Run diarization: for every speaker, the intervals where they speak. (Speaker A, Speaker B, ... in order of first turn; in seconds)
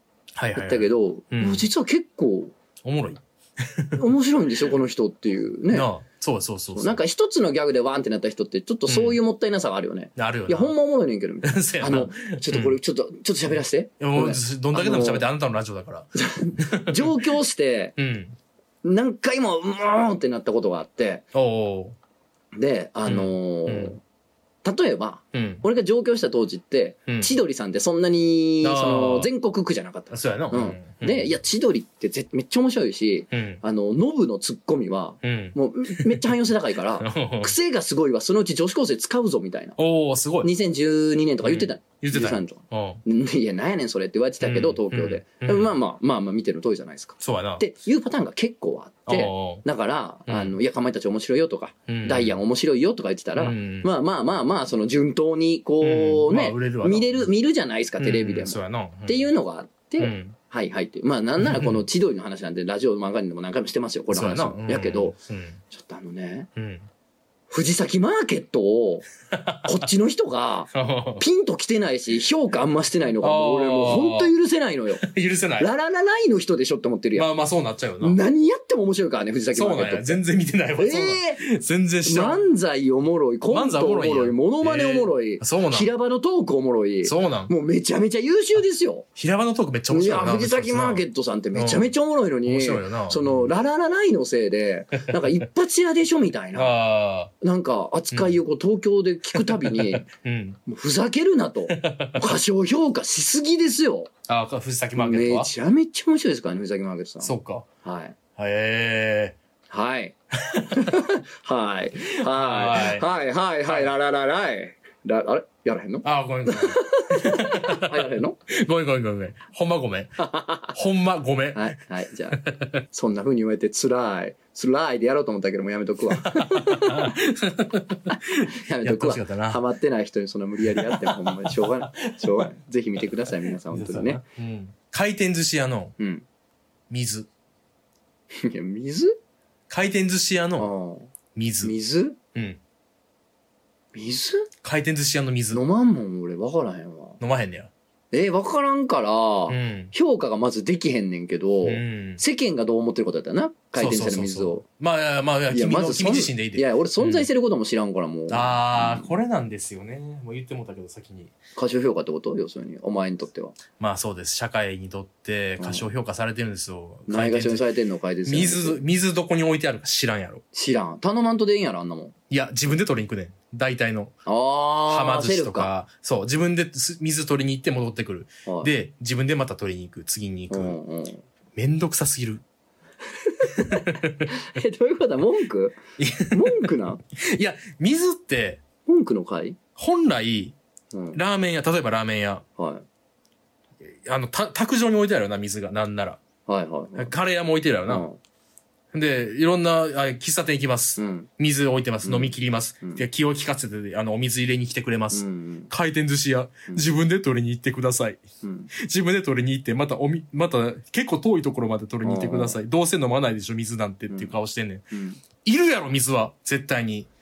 Speaker A: 0.3-1.7, 2.8-4.1, 5.7-7.0, 8.9-9.2, 10.2-10.7, 11.4-12.8, 14.0-17.2, 18.0-18.4, 21.3-21.9, 23.1-23.9, 25.3-25.6, 27.1-27.3, 28.6-29.3, 30.1-31.3, 33.3-33.6, 35.2-37.5, 39.8-40.5, 41.4-43.0, 44.4-45.7, 47.2-47.6, 49.1-49.6, 50.3-50.5, 51.9-52.4, 53.4-53.9, 55.8-57.3, 58.0-59.3, 60.0-60.4, 61.4-61.8, 64.1-65.6, 66.5-66.9, 69.3-69.8, 70.7-71.2, 73.2-74.3, 75.0-75.7, 77.1-78.2, 79.5-82.4, 83.5-85.9, 87.0-87.5, 89.2-91.9, 92.5-93.5, 95.1-95.4, 96.5-97.3, 98.1-98.4, 99.3-100.6, 101.7-102.3, 104.3-105.5, 107.2-107.7, 108.4-109.4, 110.5-111.0, 112.2-113.0, 116.0-121.8, 122.4-122.8, 126.1-129.6, 130.7-132.5, 133.4-135.9, 136.9-137.3, 139.7-140.7, 141.3-141.7, 142.3-142.6, 144.6-145.6, 147.2-147.7, 149.5-149.9, 151.6-152.2, 153.7-157.3, 158.3-161.3, 163.8-167.7, 168.3-170.4, 172.3-174.1, 174.9-180.8, 181.6-182.4, 183.6-184.3, 186.0-188.6, 189.8-190.6, 191.1-192.4, 193.8-196.2, 197.0-198.1, 198.9-217.1
Speaker B: 0.6-2.5, 4.0-5.9, 6.7-15.2, 16.1-17.9, 18.8-21.2, 22.5-24.0, 24.6-39.8, 40.4-65.1, 65.7-66.5, 67.5-69.0, 69.6-75.0, 75.6-77.3, 78.0-80.2, 80.8-81.4, 82.0-89.0, 89.9-96.8, 97.4-100.1, 100.7-104.1, 105.0-108.2, 109.7-110.1, 110.7-118.4, 120.2-120.7, 121.5-127.2, 128.1-134.2, 136.0-136.2, 138.3-139.2, 140.6-141.1, 141.6-142.2, 143.9-144.5, 145.5-147.2, 148.1-154.6, 155.5-159.1, 161.6-163.6, 165.6-165.8, 167.1-168.8, 170.5-172.1, 174.3-175.7, 180.5-181.2, 183.2-185.8, 186.3-187.0, 188.9-189.6, 190.9-191.2, 192.6-192.8, 196.5-197.1, 197.9-198.2, 201.0-201.3, 202.0-203.1, 205.1-205.7, 208.4-208.7, 212.0-212.6, 214.9-215.2